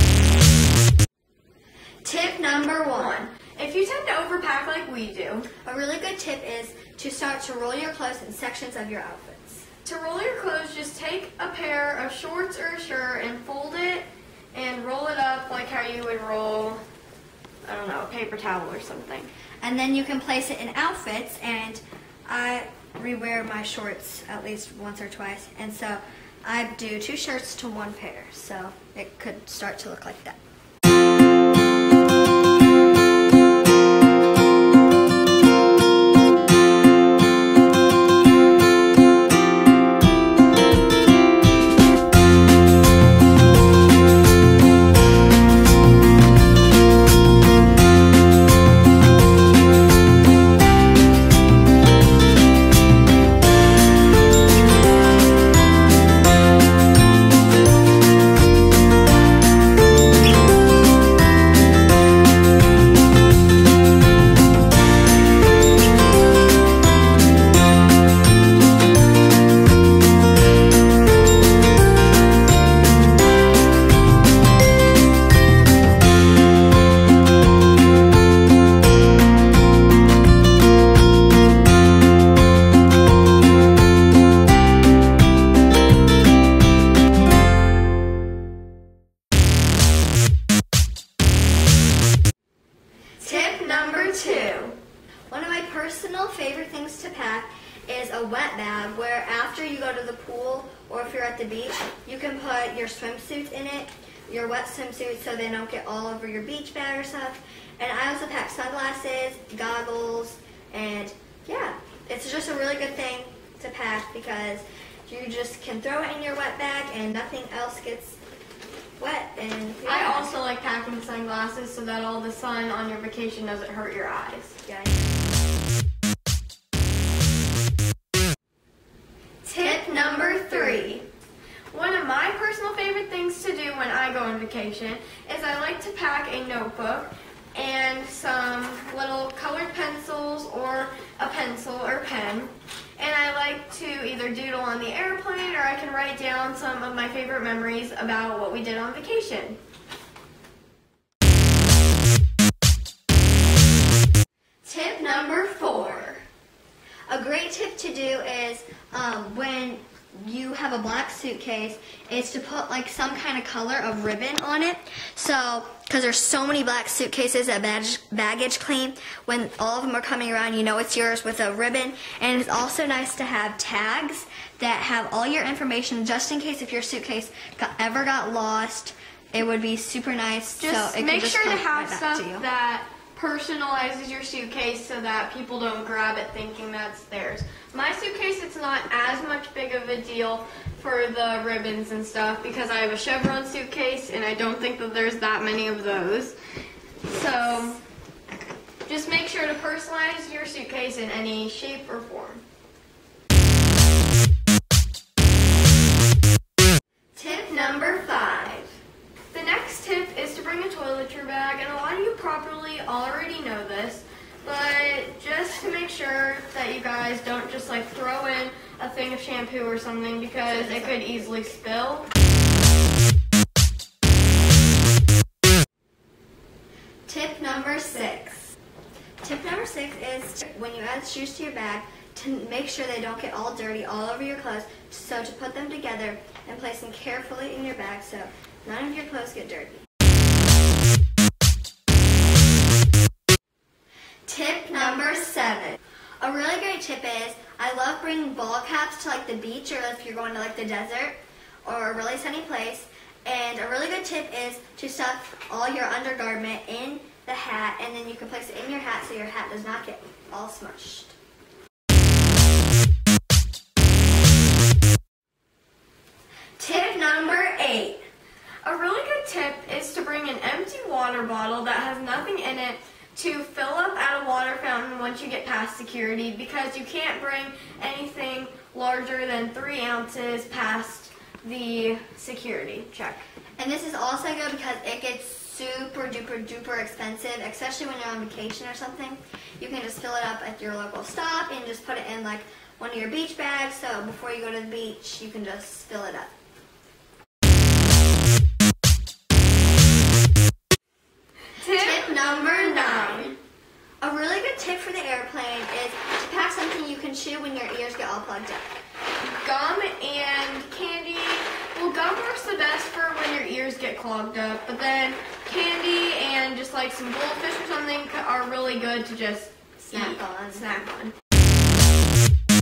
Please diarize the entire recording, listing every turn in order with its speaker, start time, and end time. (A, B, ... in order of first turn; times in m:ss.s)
0:02.0-0:03.2 A
0:02.9-0:05.5 B
0:05.6-0:09.7 A
0:09.8-0:16.8 B
0:17.6-0:19.3 B
0:19.6-0:30.4 A
1:33.2-1:34.7 A
1:33.6-1:34.7 B
1:35.3-1:58.2 A
1:59.0-2:00.3 A
1:59.8-2:04.6 B
2:04.6-2:05.1 A
2:09.4-2:11.1 B
2:09.5-2:11.0 A
2:11.7-2:29.6 B
2:34.6-2:36.2 A
2:35.0-2:36.2 B
2:37.1-3:02.5 A
3:00.6-3:16.4 B
3:17.0-3:17.8 B
3:18.9-3:22.4 B
3:27.1-3:28.6 A
3:27.3-3:28.7 B
3:29.3-3:42.1 B
3:40.4-3:41.6 A
3:47.1-3:48.6 A
3:49.2-3:59.8 A
4:04.2-4:21.1 A
4:26.6-4:28.0 A
4:28.6-4:43.2 B
4:43.6-4:56.3 A
5:01.6-5:03.4 B
5:01.6-5:03.4 A
5:04.0-5:08.8 A
5:09.2-5:21.1 B
5:19.9-5:20.7 A